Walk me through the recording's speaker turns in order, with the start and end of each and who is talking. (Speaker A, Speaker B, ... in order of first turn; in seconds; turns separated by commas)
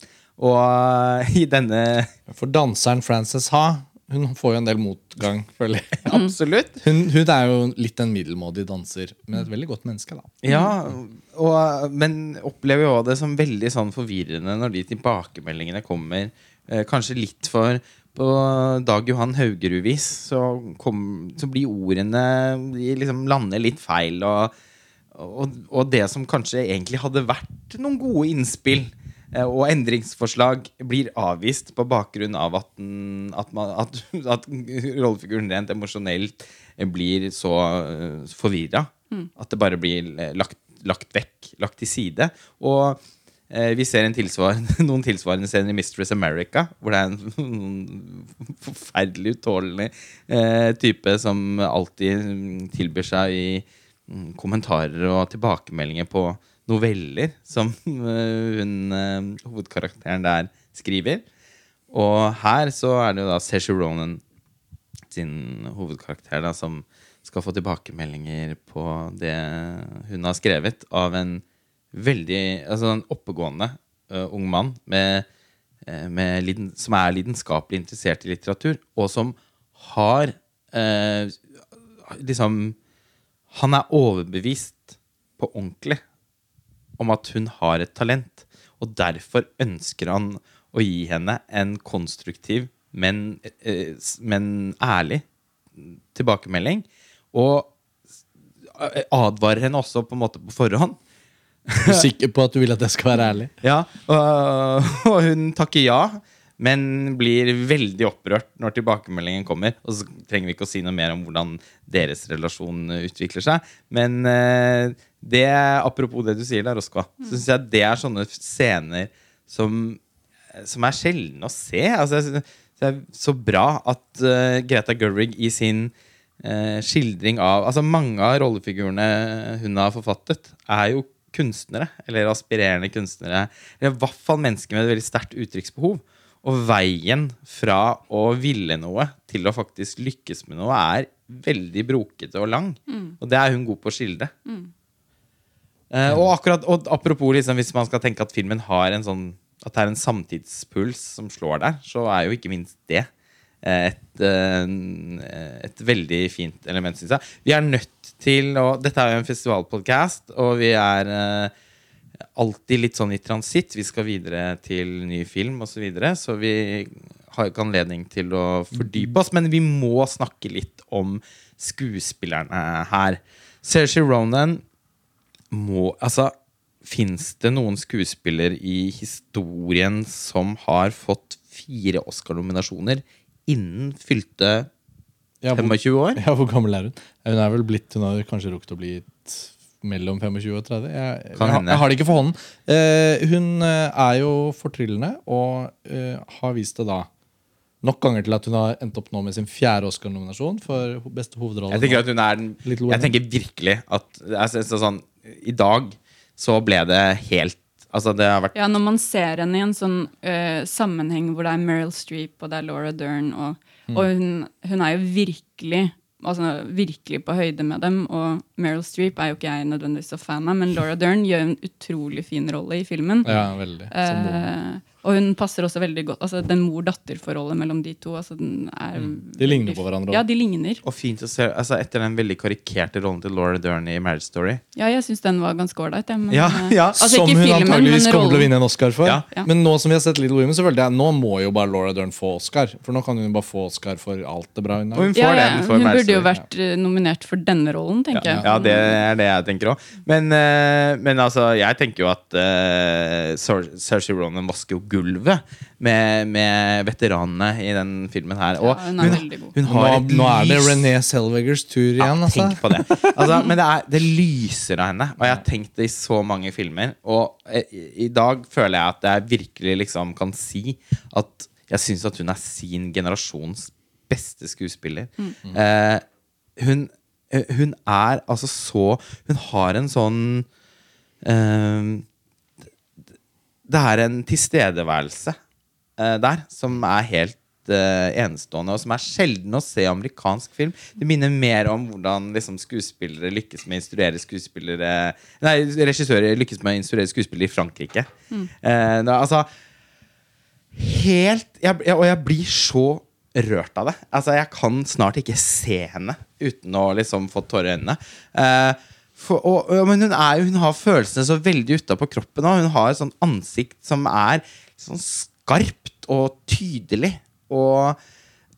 Speaker A: 0.4-2.1, Speaker B: 2.3-6.1, Speaker A: 6.0-6.8, Speaker B: 6.8-10.4, Speaker A: 10.4-24.5, Speaker A: 25.1-61.2, Speaker A: 61.9-64.2, Speaker A: 65.1-75.2, Speaker A: 75.8-81.4, Speaker A: 82.1-82.8, Speaker A: 83.5-86.0, Speaker A: 87.0-95.2, Speaker A: 95.8-97.7, Speaker A: 98.7-101.0, Speaker A: 101.7-102.1, Speaker B: 101.8-103.5, Speaker A: 103.6-120.0, Speaker A: 120.5-144.3, Speaker A: 145.9-153.1, Speaker A: 153.6-161.5, Speaker A: 162.3-174.6, Speaker A: 175.5-176.3, Speaker A: 176.8-184.7, Speaker B: 185.4-197.1, Speaker A: 185.5-186.2, Speaker A: 191.4-191.8, Speaker B: 197.8-202.0, Speaker A: 201.7-208.5, Speaker B: 202.6-203.1, Speaker C: 208.5-223.3, Speaker B: 223.2-224.4, Speaker C: 223.9-230.8, Speaker B: 228.9-230.2, Speaker A: 230.8-234.6, Speaker C: 234.8-238.5, Speaker A: 236.3-237.0, Speaker B: 237.0-245.1, Speaker A: 244.9-246.3, Speaker C: 245.1-249.0, Speaker A: 248.2-260.9, Speaker C: 258.6-259.5, Speaker B: 259.0-263.1, Speaker A: 262.0-276.0, Speaker A: 276.6-280.5, Speaker A: 281.2-282.0, Speaker A: 283.7-285.4, Speaker A: 286.0-298.1, Speaker A: 298.6-299.5, Speaker A: 300.7-318.0